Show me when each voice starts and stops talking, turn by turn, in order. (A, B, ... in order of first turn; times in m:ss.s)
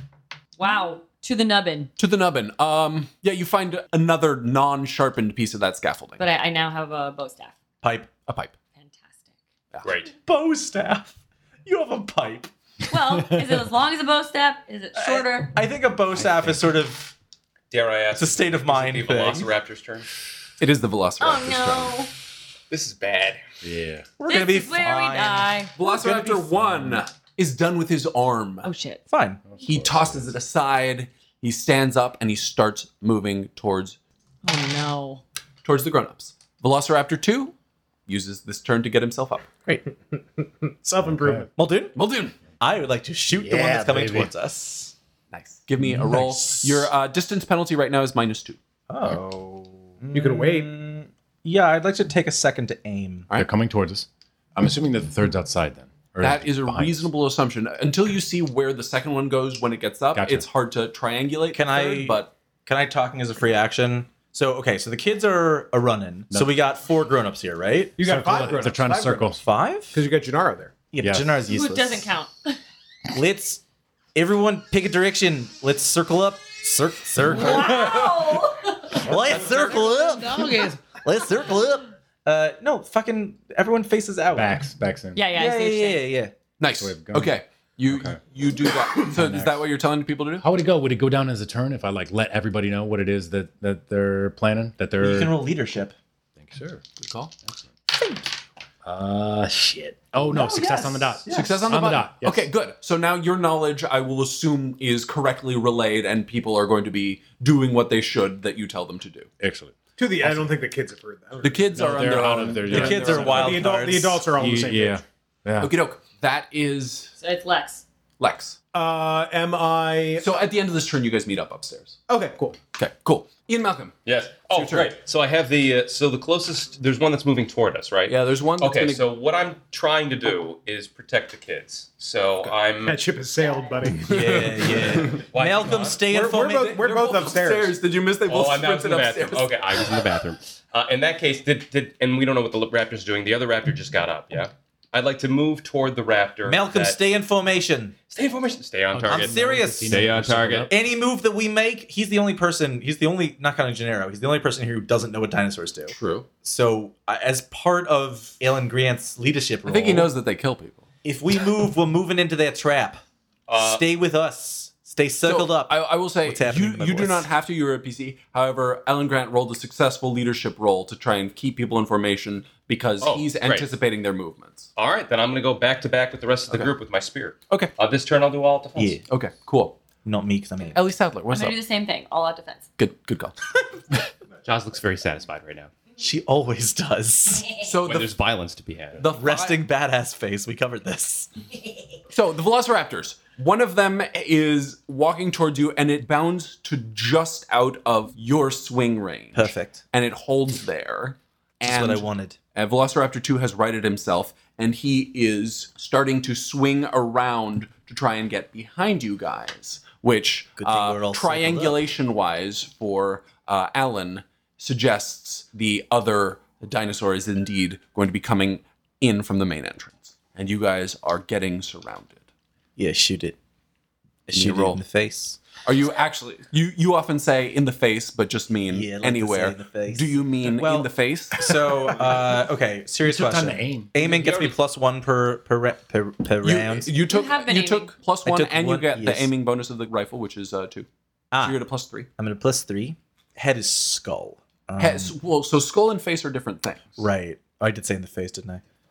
0:00.6-0:01.9 A
0:02.0-0:06.2 B
0:06.2-0:07.5 A
0:07.8-0:08.1 C
0:08.3-0:08.5 B
0:08.8-0:09.3 A
0:09.8-0:10.1 D
0:10.2-0:12.5 C
0:12.9-0:15.6 A
0:14.9-0:17.1 C
0:16.2-0:16.6 E
0:17.7-0:20.1 D
0:18.1-0:19.5 C
0:20.6-0:22.0 B
0:21.2-0:22.1 A
0:22.7-0:23.4 D
0:23.6-0:24.1 E
0:24.2-0:26.8 C
0:24.3-0:25.7 A
0:25.8-0:28.7 B
0:28.6-0:29.0 A
0:29.1-0:29.4 C
0:29.5-0:30.3 E
0:29.6-0:34.0 B
0:34.4-0:35.2 A
0:35.6-0:37.5 B
0:38.1-0:39.5 B
0:40.6-0:41.5 F
0:41.0-0:41.5 E
0:41.6-0:42.0 C
0:41.9-0:42.4 B
0:42.6-0:44.9 C
0:43.3-0:44.3 E
0:45.3-0:48.6 B
0:45.8-0:46.9 C
0:48.9-0:53.3 C
0:50.1-0:50.7 F
0:53.3-0:57.1 E
0:56.2-1:02.3 B
1:00.1-1:00.4 E
1:01.5-1:08.0 C
1:08.0-1:09.3 F
1:08.0-1:09.4 E
1:09.4-1:10.0 C
1:09.9-1:10.7 F
1:10.9-1:12.1 C
1:11.0-1:11.3 E
1:11.5-1:12.6 A
1:13.1-1:13.6 C
1:14.1-1:18.2 C
1:17.3-1:19.0 A
1:18.9-1:24.6 C
1:19.1-1:19.5 E
1:20.0-1:20.7 E
1:24.3-1:25.3 E
1:25.1-1:26.1 A
1:25.3-1:26.3 C
1:26.6-1:30.4 B
1:26.7-1:27.3 E
1:27.8-1:28.2 E
1:29.0-1:29.6 E
1:30.4-1:35.3 E
1:35.0-1:35.9 C
1:36.4-1:36.8 E
1:37.0-1:37.3 B
1:37.9-1:38.3 C
1:38.8-1:42.4 E
1:40.2-1:41.8 C
1:41.3-1:49.3 B
1:49.4-1:50.6 E
1:50.0-1:52.2 F
1:51.4-1:53.4 B
1:51.7-1:53.7 E
1:52.6-1:54.2 C
1:53.1-1:55.0 F
1:54.3-1:55.7 E
1:55.6-1:57.1 B
1:57.2-1:57.8 A
1:58.2-1:58.6 B
1:58.7-2:00.3 F
2:00.2-2:02.0 B
2:02.1-2:02.6 F
2:02.8-2:03.9 B
2:04.0-2:13.0 D
2:04.5-2:04.9 B
2:08.1-2:09.0 B
2:12.8-2:15.1 F
2:14.0-2:16.7 C
2:15.0-2:16.0 D
2:16.1-2:17.7 F
2:16.4-2:20.0 B
2:18.2-2:27.0 D
2:26.4-2:27.9 C
2:28.0-2:30.7 D
2:28.9-2:30.7 E
2:29.1-2:30.1 C
2:30.7-2:40.1 C
2:35.9-2:36.3 B
2:39.6-2:40.8 B
2:41.0-2:43.0 C
2:43.5-2:43.8 D
2:43.6-2:47.3 C
2:45.2-2:54.7 B
2:53.0-2:53.7 D
2:54.8-2:59.0 D
2:58.8-2:59.0 C
2:59.1-2:59.8 B
3:00.0-3:00.8 C
3:00.7-3:01.6 B
3:01.3-3:02.6 A
3:02.8-3:03.4 B
3:04.4-3:05.7 D
3:06.0-3:07.5 C
3:07.6-3:08.1 B
3:07.8-3:09.0 D
3:09.0-3:09.6 B
3:09.1-3:11.3 C
3:12.1-3:42.2 B
3:19.3-3:19.8 C
3:21.6-3:22.4 C
3:30.6-3:31.8 C
3:42.8-3:43.4 C
3:44.3-3:45.4 C
3:44.3-3:44.8 B
3:45.6-3:52.1 B
3:48.7-3:56.9 C
3:53.0-3:53.9 E
3:53.9-3:54.6 D
3:56.4-4:00.9 B
3:57.1-3:57.9 A
3:58.2-3:59.3 C
4:01.3-4:01.6 C
4:01.4-4:02.1 B
4:02.2-4:05.1 C
4:04.8-4:07.0 B
4:07.0-4:08.6 C